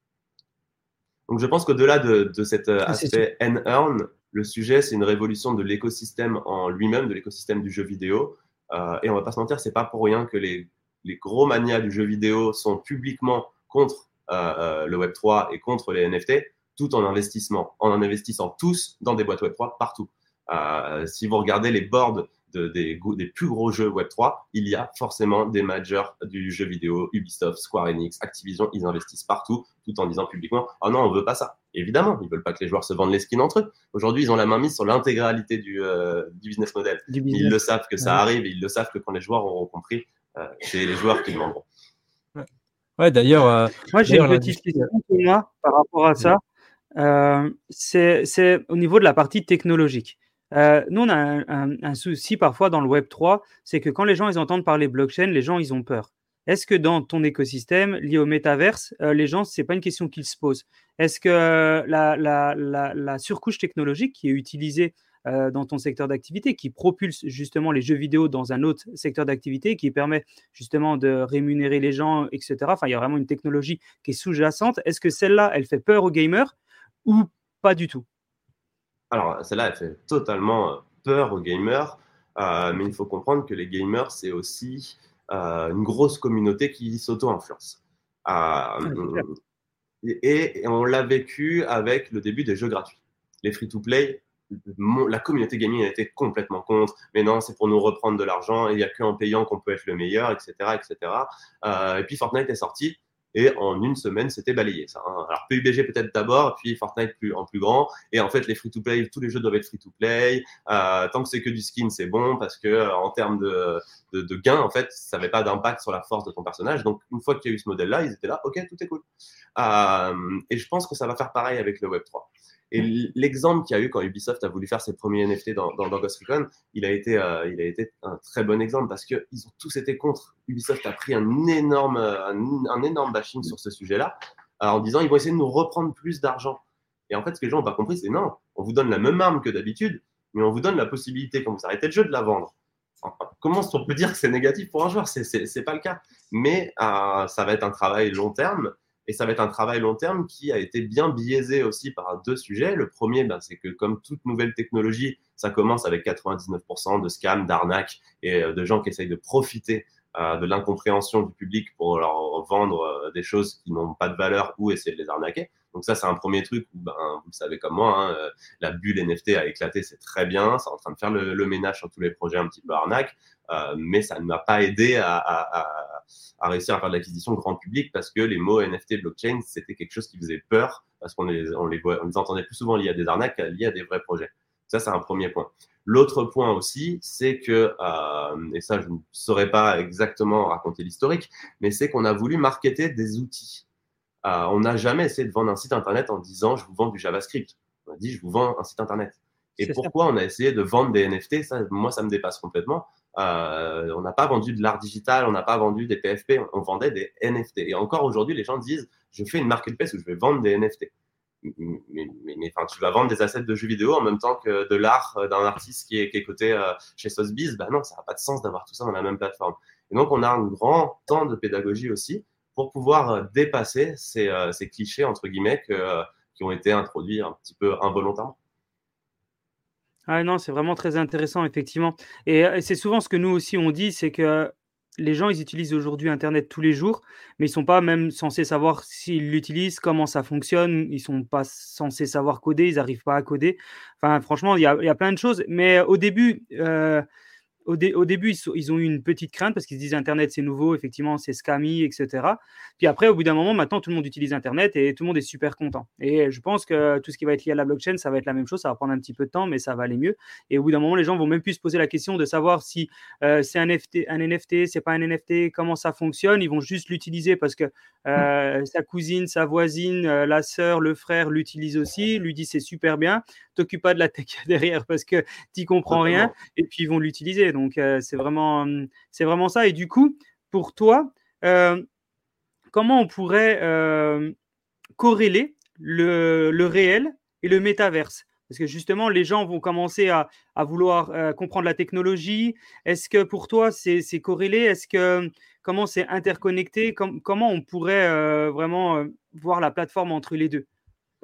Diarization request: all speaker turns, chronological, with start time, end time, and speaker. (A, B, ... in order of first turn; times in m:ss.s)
0:01.3-0:41.6 A
0:02.9-0:03.2 B
0:37.1-0:38.2 B
0:42.4-0:44.9 C
0:43.9-0:46.4 B
0:47.0-1:16.5 B
1:17.0-1:18.0 B
1:19.1-1:29.4 A
1:28.9-1:29.2 B
1:30.0-1:59.0 A
1:59.6-3:13.6 A
3:14.2-3:30.9 A
3:19.6-3:19.9 B
3:31.4-3:48.4 A
3:50.1-4:07.0 B
4:07.7-4:41.8 B
4:35.9-4:36.3 A
4:42.7-4:44.4 B
4:45.0-5:00.7 B